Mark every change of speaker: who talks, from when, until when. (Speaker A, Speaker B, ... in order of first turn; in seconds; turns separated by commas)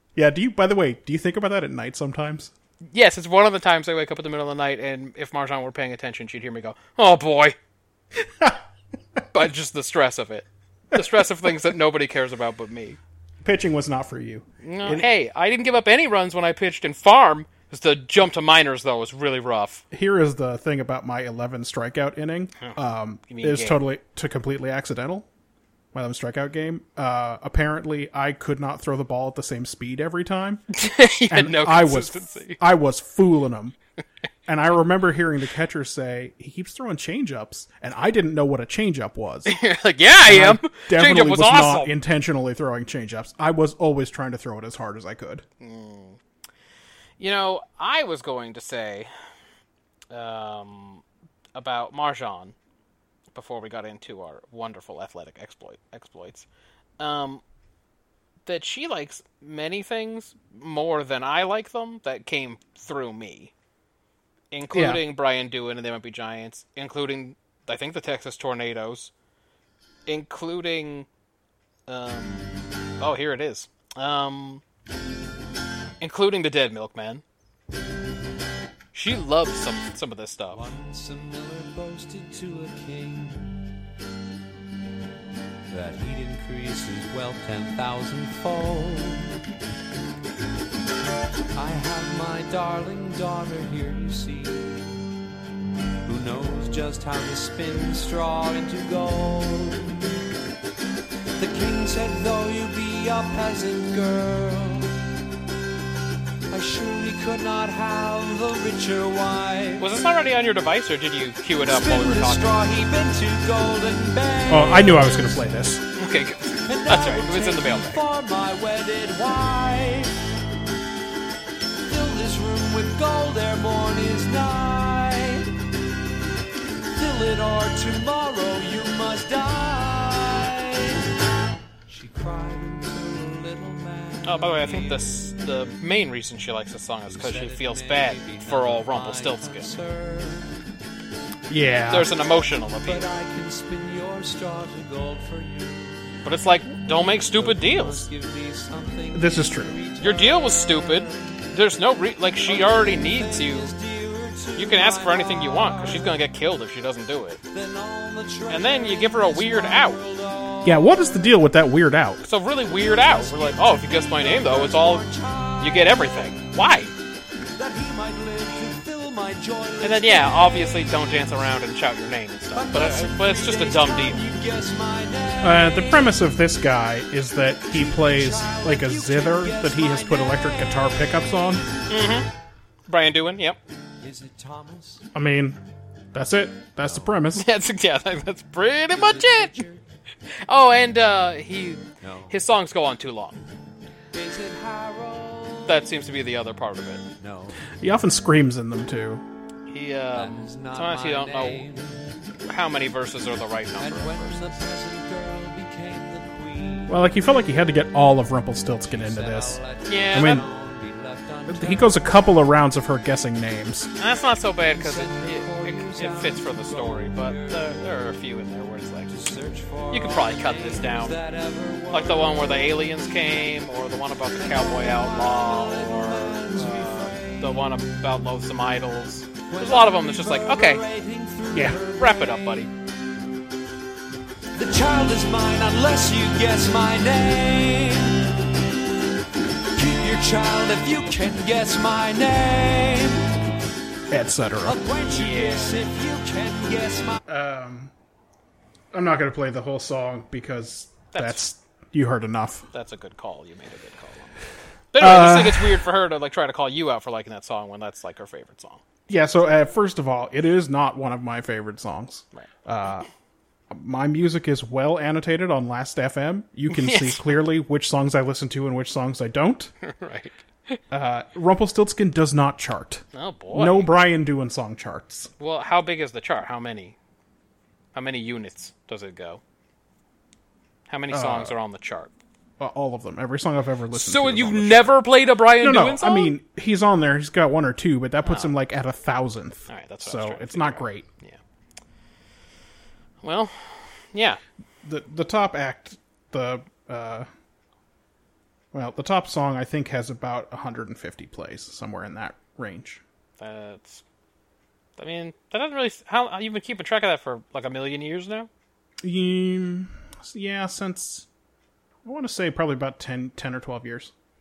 Speaker A: 0.1-2.5, Speaker B: 2.9-7.5, Speaker A: 8.2-8.6, Speaker B: 9.3-13.0, Speaker A: 10.9-11.5, Speaker A: 13.4-15.1, Speaker B: 14.6-19.8, Speaker A: 19.9-25.3, Speaker B: 22.6-23.8, Speaker A: 25.9-30.6, Speaker B: 30.7-32.6, Speaker A: 31.3-33.8, Speaker A: 34.5-39.6, Speaker B: 39.5-41.9, Speaker A: 40.2-45.4, Speaker B: 45.6-46.2, Speaker B: 47.2-49.1, Speaker B: 50.1-51.0, Speaker B: 51.5-52.5, Speaker B: 53.3-56.5, Speaker B: 57.0-57.4, Speaker B: 58.5-63.5, Speaker B: 64.5-69.1, Speaker A: 64.7-65.0, Speaker B: 70.1-71.1, Speaker B: 71.9-72.5, Speaker B: 73.0-74.6, Speaker B: 76.0-77.2, Speaker B: 78.9-80.7, Speaker C: 80.5-83.6, Speaker C: 85.7-89.4, Speaker C: 91.5-95.0, Speaker C: 96.0-100.0, Speaker C: 101.4-104.9, Speaker C: 106.5-109.9, Speaker B: 109.8-112.6, Speaker C: 111.6-115.4, Speaker A: 114.5-115.8, Speaker B: 116.0-118.0, Speaker C: 116.7-120.1, Speaker C: 121.8-125.5, Speaker C: 127.0-131.0, Speaker C: 131.9-135.3, Speaker B: 134.2-139.8, Speaker C: 137.1-140.6, Speaker A: 141.5-142.1, Speaker B: 141.9-143.0, Speaker C: 142.8-146.2, Speaker B: 146.2-148.1, Speaker C: 146.8-151.5, Speaker A: 149.1-149.7, Speaker B: 150.0-153.7, Speaker C: 152.4-156.2, Speaker B: 154.6-157.4, Speaker C: 157.5-161.3, Speaker B: 158.5-160.0, Speaker A: 160.6-162.2, Speaker B: 162.2-165.1, Speaker C: 162.5-166.4, Speaker B: 165.6-166.9, Speaker C: 167.6-171.6, Speaker B: 169.8-174.2, Speaker C: 172.5-176.2, Speaker A: 175.4-181.6, Speaker C: 177.7-181.8, Speaker B: 181.9-182.3, Speaker B: 182.9-183.6, Speaker C: 184.0-185.0, Speaker A: 185.1-185.6, Speaker A: 186.1-187.4, Speaker B: 187.3-189.6, Speaker C: 188.9-189.8, Speaker B: 190.5-193.4, Speaker C: 192.0-192.3, Speaker C: 194.1-195.9, Speaker B: 195.7-197.0, Speaker C: 197.2-197.7, Speaker A: 197.8-199.2, Speaker B: 199.7-201.7, Speaker C: 200.1-202.1, Speaker B: 202.4-204.5, Speaker C: 203.8-207.0, Speaker A: 206.9-209.6, Speaker C: 208.8-212.1, Speaker B: 209.8-210.4, Speaker A: 210.1-210.4, Speaker A: 211.5-213.9, Speaker B: 214.0-219.1, Speaker C: 214.6-218.0, Speaker C: 219.1-227.8, Speaker B: 219.9-221.2, Speaker B: 221.9-230.8, Speaker C: 229.4-232.7, Speaker A: 231.5-231.8, Speaker B: 232.0-232.7, Speaker C: 234.5-238.4, Speaker C: 239.7-243.3, Speaker A: 244.1-244.8, Speaker C: 244.6-247.2, Speaker B: 245.1-245.8, Speaker A: 247.3-247.9, Speaker A: 248.9-252.7, Speaker B: 251.1-251.4, Speaker B: 252.7-254.3, Speaker B: 254.9-258.8, Speaker A: 255.0-255.8, Speaker A: 259.1-263.1, Speaker A: 263.7-269.7, Speaker B: 266.7-267.4, Speaker B: 269.8-270.8, Speaker A: 270.9-275.3, Speaker B: 273.1-273.9, Speaker B: 275.4-276.9, Speaker B: 277.9-279.4, Speaker B: 280.9-282.1, Speaker A: 281.1-281.5, Speaker A: 282.6-285.0, Speaker B: 283.9-286.3, Speaker A: 285.6-291.1, Speaker B: 288.2-288.5, Speaker B: 289.7-291.4, Speaker B: 293.2-294.4, Speaker A: 294.8-297.3, Speaker A: 298.7-303.0, Speaker B: 303.4-304.0, Speaker B: 305.0-308.5, Speaker A: 309.0-311.3, Speaker A: 312.0-314.1